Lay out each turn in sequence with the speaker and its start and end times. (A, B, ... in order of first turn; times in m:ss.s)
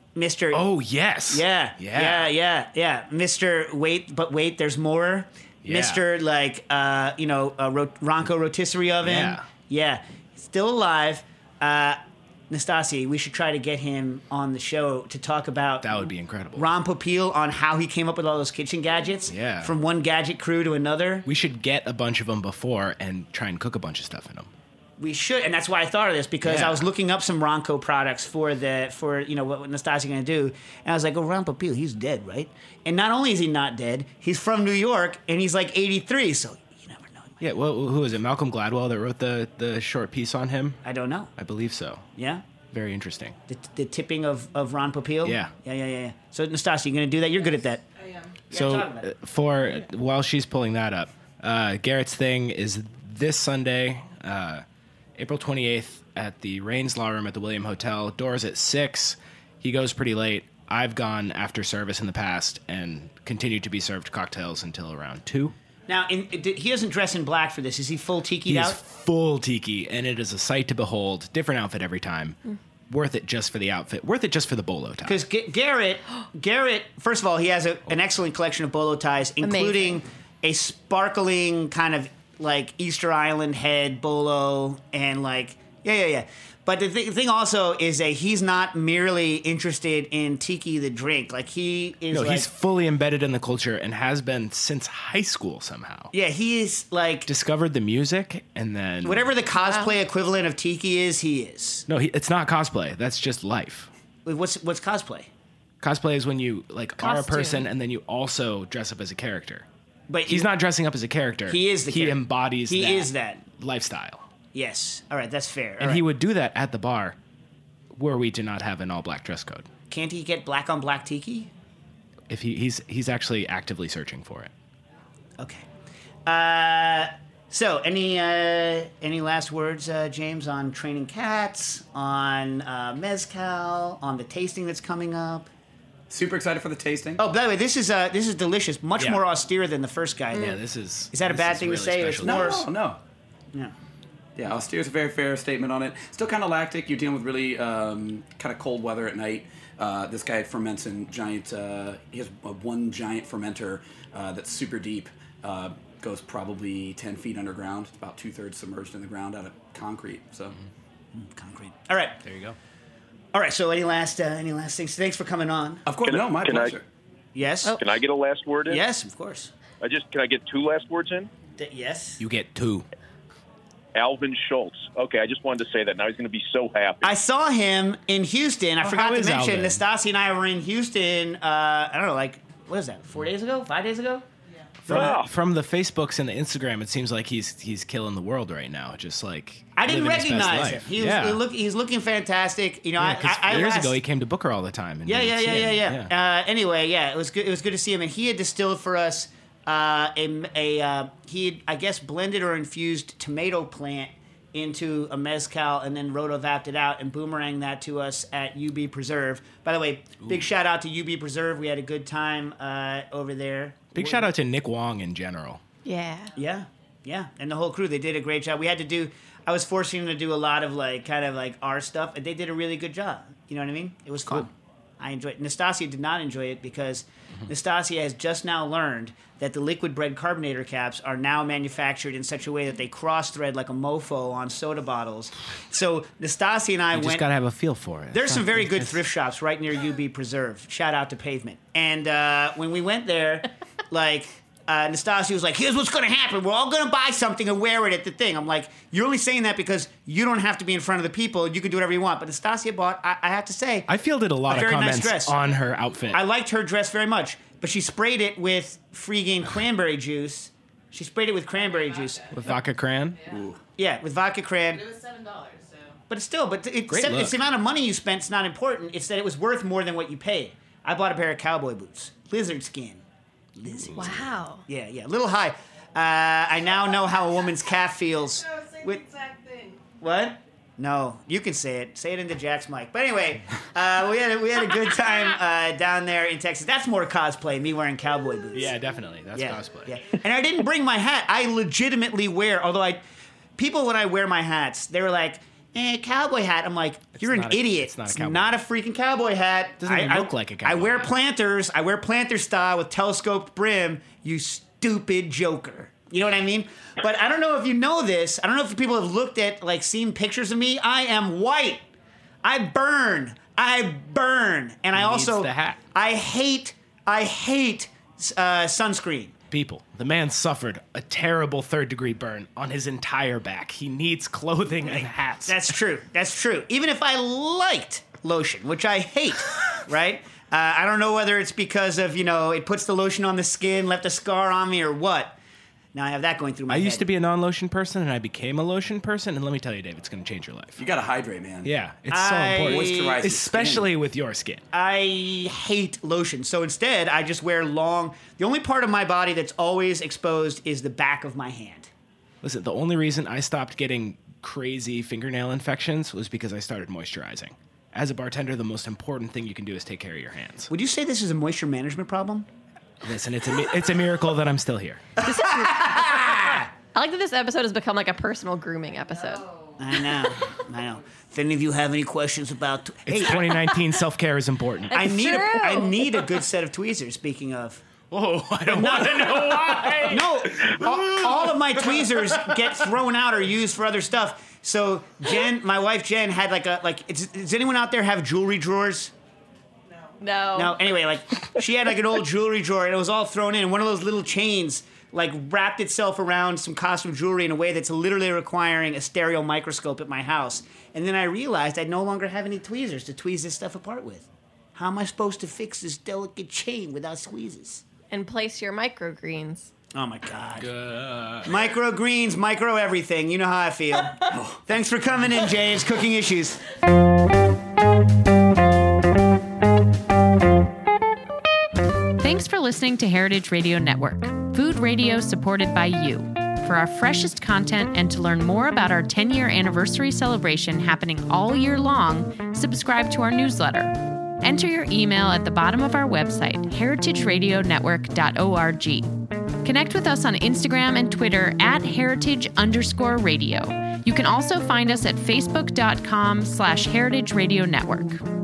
0:00.2-0:00.6 A
0:00.5-0:02.3 B
0:01.3-0:12.0 A
0:05.6-0:06.0 B
0:09.0-0:09.4 B
0:12.5-0:16.0 A
0:15.8-0:16.6 B
0:16.5-0:21.2 A
0:19.3-0:19.7 B
0:21.2-0:24.5 B
0:25.0-0:37.4 A
0:26.4-0:26.8 B
0:37.4-0:40.8 B
0:40.8-0:41.3 A
0:41.4-0:42.0 B
0:42.2-0:42.4 A
0:42.7-0:43.4 B
0:43.5-0:47.8 A
0:45.2-0:45.5 B
0:48.0-0:48.3 C
0:48.5-0:49.1 A
0:48.5-0:54.6 B
0:55.2-1:05.5 B
1:05.9-1:08.8 A
1:08.5-1:12.4 B
1:12.9-1:15.2 B
1:15.0-1:32.5 A
1:19.4-1:20.0 D
1:32.1-1:36.1 B
1:36.1-1:37.3 A
1:37.3-1:39.3 B
1:39.0-1:41.8 A
1:39.6-1:39.9 D
1:41.9-1:43.9 B
1:44.2-1:45.3 A
1:45.8-1:49.6 B
1:47.0-1:47.6 D
1:50.1-1:50.5 A
1:50.3-1:54.2 B
1:51.5-1:53.4 A
1:54.5-1:56.0 A
1:55.8-1:57.2 B
1:57.9-1:59.7 B
1:59.9-2:01.5 A
2:02.3-2:04.5 B
2:05.4-2:05.7 A
2:06.2-2:15.5 A
2:16.1-2:17.2 E
2:17.2-2:20.6 A
2:20.3-2:22.6 B
2:21.1-2:22.7 A
2:22.2-2:23.0 E
2:24.4-2:40.6 E
2:41.1-2:42.2 A
2:42.2-2:42.6 B
2:43.3-2:45.8 A
2:45.8-2:46.8 E
2:46.0-2:46.7 F
2:47.3-2:47.8 A
2:47.8-2:48.8 F
2:48.7-2:49.5 A
2:49.8-2:51.3 F
2:51.6-2:52.2 A
2:52.2-2:52.8 B
2:53.9-2:57.1 F
2:57.0-3:04.2 A
2:58.8-2:59.8 B
3:04.8-3:05.2 A
3:04.8-3:11.4 B
3:04.9-3:05.3 F
3:09.8-3:14.0 A
3:13.0-3:16.1 B
3:15.0-3:34.3 A
3:33.9-3:35.6 B
3:35.8-3:36.3 D
3:36.4-3:57.2 A
3:56.9-3:59.0 B
3:58.1-4:13.9 A
4:13.9-4:16.2 B
4:14.4-4:15.4 A
4:16.1-4:22.3 A
4:21.5-4:22.4 C
4:22.3-4:23.2 B
4:23.1-4:23.5 C
4:23.3-4:23.6 E
4:23.8-4:24.8 A
4:24.7-4:26.0 C
4:26.1-4:33.0 A
4:26.9-4:27.4 B
4:33.6-4:39.0 A
4:34.0-4:34.6 D
4:36.9-4:37.3 C
4:38.3-4:39.9 C
4:40.0-4:48.8 A
4:48.5-4:50.0 B
4:49.3-4:53.0 A
4:53.6-5:11.8 A
4:57.2-4:58.5 B
4:59.8-5:01.1 B
5:12.4-5:19.3 A
5:14.9-5:15.8 B
5:19.5-5:25.7 B
5:24.8-5:35.4 A
5:35.9-5:37.1 A
5:36.7-5:40.8 B
5:40.8-5:41.7 E
5:41.6-5:44.6 B
5:42.1-5:43.2 A
5:42.6-5:43.9 E
5:44.7-5:51.9 A
5:52.4-6:00.7 B
6:00.7-6:02.5 A
6:03.0-6:05.2 B
6:05.2-6:06.7 A
6:05.3-6:05.6 D
6:06.9-6:09.5 D
6:09.4-6:09.7 C
6:09.8-6:13.4 A
6:13.0-6:15.0 B
6:14.9-6:16.2 D
6:14.9-6:17.8 A
6:18.1-6:20.9 B
6:18.6-6:29.1 A
6:22.0-6:22.6 B
6:29.9-6:30.2 C
6:30.2-6:30.8 D
6:30.5-6:47.8 A
6:48.1-6:49.7 D
6:49.9-6:50.7 A
6:50.6-6:51.5 B
6:51.4-6:56.6 A
6:54.3-6:54.6 E
7:02.2-7:19.1 G
7:19.6-7:28.2 G